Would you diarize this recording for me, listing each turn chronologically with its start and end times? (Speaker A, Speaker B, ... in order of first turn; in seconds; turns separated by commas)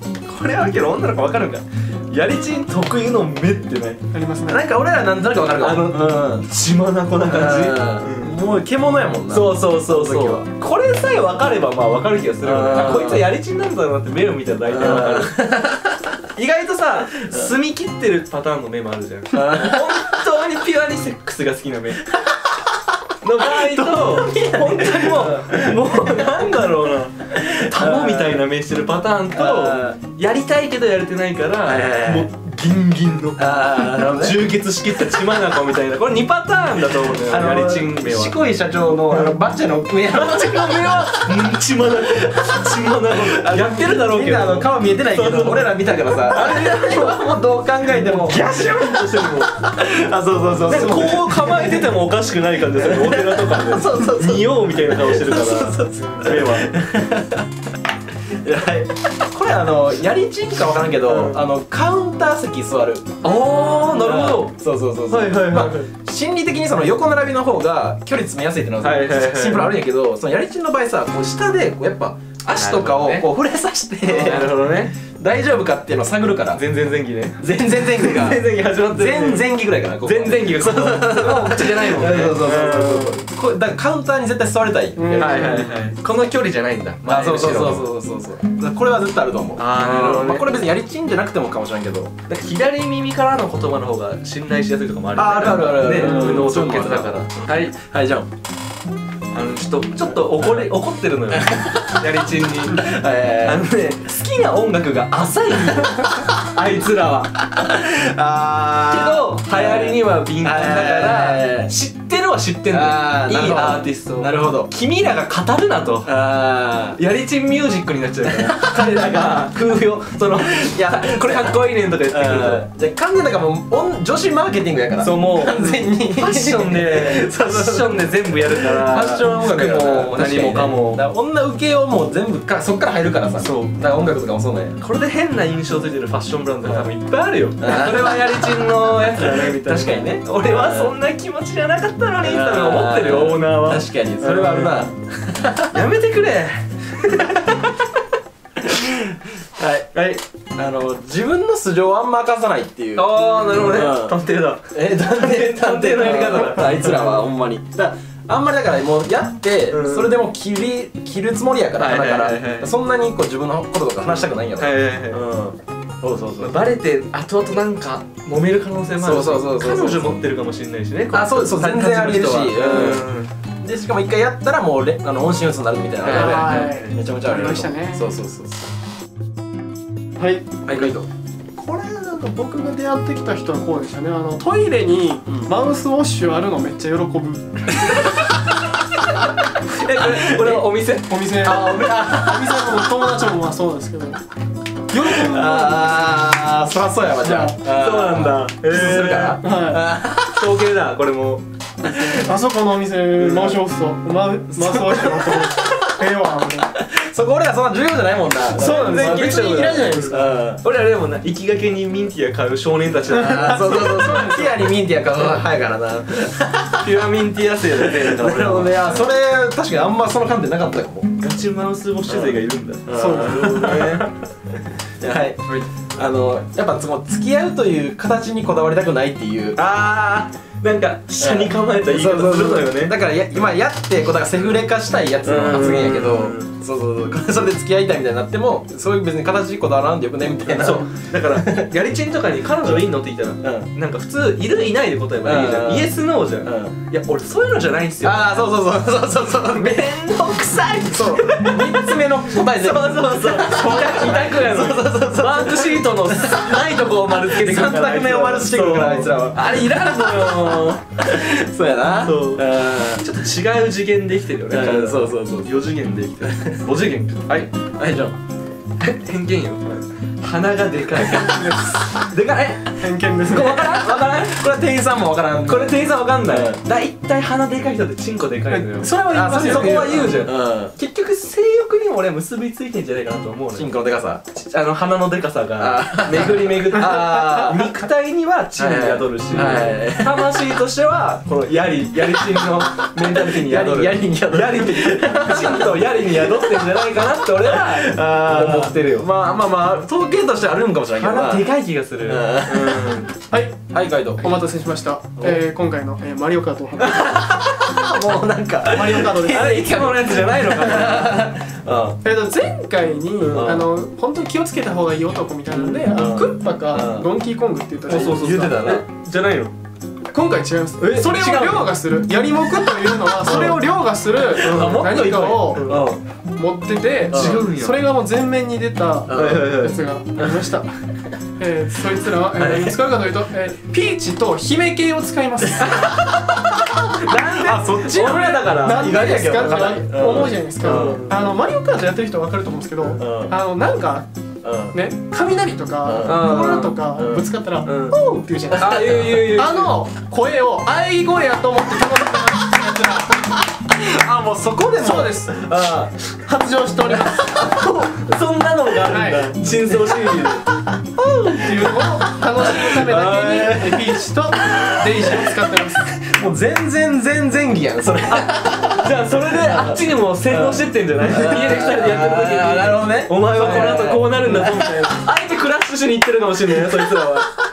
Speaker A: 0.3-4.0, Speaker B: 4.1-4.7, Speaker C: 4.5-6.5, Speaker A: 5.6-8.3, Speaker C: 7.2-10.4, Speaker A: 9.3-15.5, Speaker C: 12.4-13.3, Speaker C: 14.7-16.2, Speaker A: 16.4-22.1, Speaker C: 17.2-17.5, Speaker C: 19.3-20.3, Speaker C: 22.2-22.7, Speaker A: 23.2-38.4, Speaker C: 23.4-26.2, Speaker C: 27.4-28.4, Speaker C: 29.3-30.0, Speaker C: 31.6-32.3, Speaker C: 33.4-34.4, Speaker C: 35.0-35.4, Speaker C: 37.2-41.4, Speaker A: 40.1-47.3, Speaker C: 42.0-48.4, Speaker A: 47.9-49.6, Speaker C: 49.4-51.9, Speaker A: 50.6-56.7, Speaker C: 52.7-57.5, Speaker C: 58.3-76.6, Speaker A: 61.0-61.4, Speaker A: 63.2-64.6, Speaker A: 65.1-65.9, Speaker A: 68.8-69.8, Speaker A: 72.5-73.2, Speaker A: 74.0-75.0, Speaker A: 76.5-79.5, Speaker C: 77.4-85.8, Speaker A: 80.0-83.2, Speaker B: 85.0-85.8, Speaker A: 85.2-87.8, Speaker C: 87.0-92.1, Speaker A: 89.6-90.5, Speaker A: 92.3-97.7, Speaker C: 95.1-98.3, Speaker A: 99.3-102.9, Speaker C: 101.3-102.0, Speaker C: 102.7-103.7, Speaker A: 103.4-107.4, Speaker C: 107.5-111.7, Speaker A: 108.9-116.1, Speaker C: 112.7-114.7, Speaker C: 116.0-117.0, Speaker A: 117.0-122.7, Speaker C: 118.2-119.4, Speaker C: 120.3-121.5, Speaker C: 122.1-134.8, Speaker A: 125.0-131.0, Speaker A: 133.4-133.8, Speaker A: 134.8-144.9, Speaker C: 136.6-136.9, Speaker C: 137.6-138.5, Speaker C: 139.2-140.9, Speaker C: 142.2-145.8, Speaker A: 145.7-147.7, Speaker C: 149.6-150.0, Speaker A: 149.9-150.2, Speaker C: 150.5-154.2, Speaker A: 152.9-157.2, Speaker C: 154.7-166.6, Speaker A: 159.7-160.2, Speaker A: 161.8-162.7, Speaker A: 164.6-165.2, Speaker A: 166.4-173.3, Speaker C: 169.0-170.2, Speaker C: 171.1-173.1, Speaker C: 173.6-178.6, Speaker A: 176.0-177.0, Speaker B: 176.1-178.1, Speaker B: 180.2-180.9, Speaker C: 180.7-181.1, Speaker B: 181.6-188.1, Speaker A: 189.7-191.9, Speaker C: 190.0-190.7, Speaker B: 191.1-194.2, Speaker C: 191.4-193.3, Speaker B: 194.9-196.3, Speaker C: 194.9-200.5, Speaker B: 197.2-197.6, Speaker A: 197.6-199.4, Speaker B: 199.4-199.8, Speaker A: 200.3-201.4, Speaker B: 201.9-206.7, Speaker C: 201.9-202.2, Speaker A: 203.2-203.6, Speaker C: 204.6-205.8, Speaker C: 206.8-210.6, Speaker B: 208.5-210.3, Speaker A: 208.5-213.9, Speaker C: 213.1-216.9, Speaker B: 213.3-214.7, Speaker A: 216.8-219.1, Speaker C: 217.8-221.1, Speaker A: 221.2-224.1, Speaker C: 222.1-224.1, Speaker B: 222.9-223.8, Speaker C: 225.0-229.6, Speaker A: 229.6-232.9, Speaker C: 231.2-241.7, Speaker A: 235.2-236.5, Speaker A: 240.5-248.5, Speaker C: 243.4-243.7, Speaker C: 245.2-246.7, Speaker C: 248.0-249.8, Speaker A: 249.3-260.9, Speaker C: 250.9-256.6, Speaker C: 257.1-263.1, Speaker A: 262.0-262.4, Speaker A: 263.0-267.5, Speaker C: 264.5-265.6, Speaker C: 266.2-266.6, Speaker C: 267.6-268.1, Speaker A: 268.8-274.4, Speaker B: 271.0-271.9, Speaker B: 272.8-273.6, Speaker C: 273.3-276.6, Speaker A: 275.4-283.7, Speaker B: 278.5-280.1, Speaker C: 278.9-280.7, Speaker C: 283.5-284.2, Speaker A: 284.3-299.1, Speaker C: 285.6-287.7, Speaker C: 288.6-290.4, Speaker C: 292.3-296.9, Speaker C: 297.4-301.5, Speaker A: 301.0-303.1, Speaker C: 302.0-303.0, Speaker B: 303.3-303.6, Speaker C: 303.7-304.3, Speaker B: 304.2-307.2, Speaker C: 306.8-312.0, Speaker B: 308.6-309.8, Speaker A: 308.9-311.3, Speaker B: 312.0-318.7, Speaker A: 313.2-313.7, Speaker C: 313.3-313.6, Speaker C: 315.5-317.1, Speaker A: 317.9-319.5, Speaker C: 317.9-318.8, Speaker B: 320.1-325.6, Speaker A: 320.8-321.7, Speaker C: 320.8-321.6, Speaker C: 323.1-323.6, Speaker A: 323.2-323.6, Speaker C: 324.2-326.0, Speaker A: 324.3-325.9, Speaker B: 326.4-330.7, Speaker A: 327.1-327.9, Speaker C: 327.1-327.4, Speaker C: 329.1-329.6, Speaker A: 329.1-329.8, Speaker C: 330.2-330.5, Speaker B: 331.4-335.9, Speaker A: 332.4-332.8, Speaker A: 335.6-336.0, Speaker C: 335.7-341.1, Speaker A: 336.8-341.2, Speaker B: 337.9-344.1, Speaker C: 343.0-343.3, Speaker C: 344.4-344.8, Speaker B: 344.7-353.4, Speaker C: 345.8-347.2, Speaker A: 346.0-346.8, Speaker A: 347.6-347.9, Speaker C: 348.5-349.2, Speaker A: 348.5-349.7, Speaker C: 353.7-355.9, Speaker B: 354.7-355.5, Speaker B: 356.2-357.4, Speaker C: 356.9-357.8, Speaker A: 357.4-360.4, Speaker B: 358.9-359.4, Speaker C: 359.7-360.2, Speaker C: 361.0-375.0, Speaker B: 361.2-365.9, Speaker A: 368.1-377.3, Speaker C: 376.5-376.9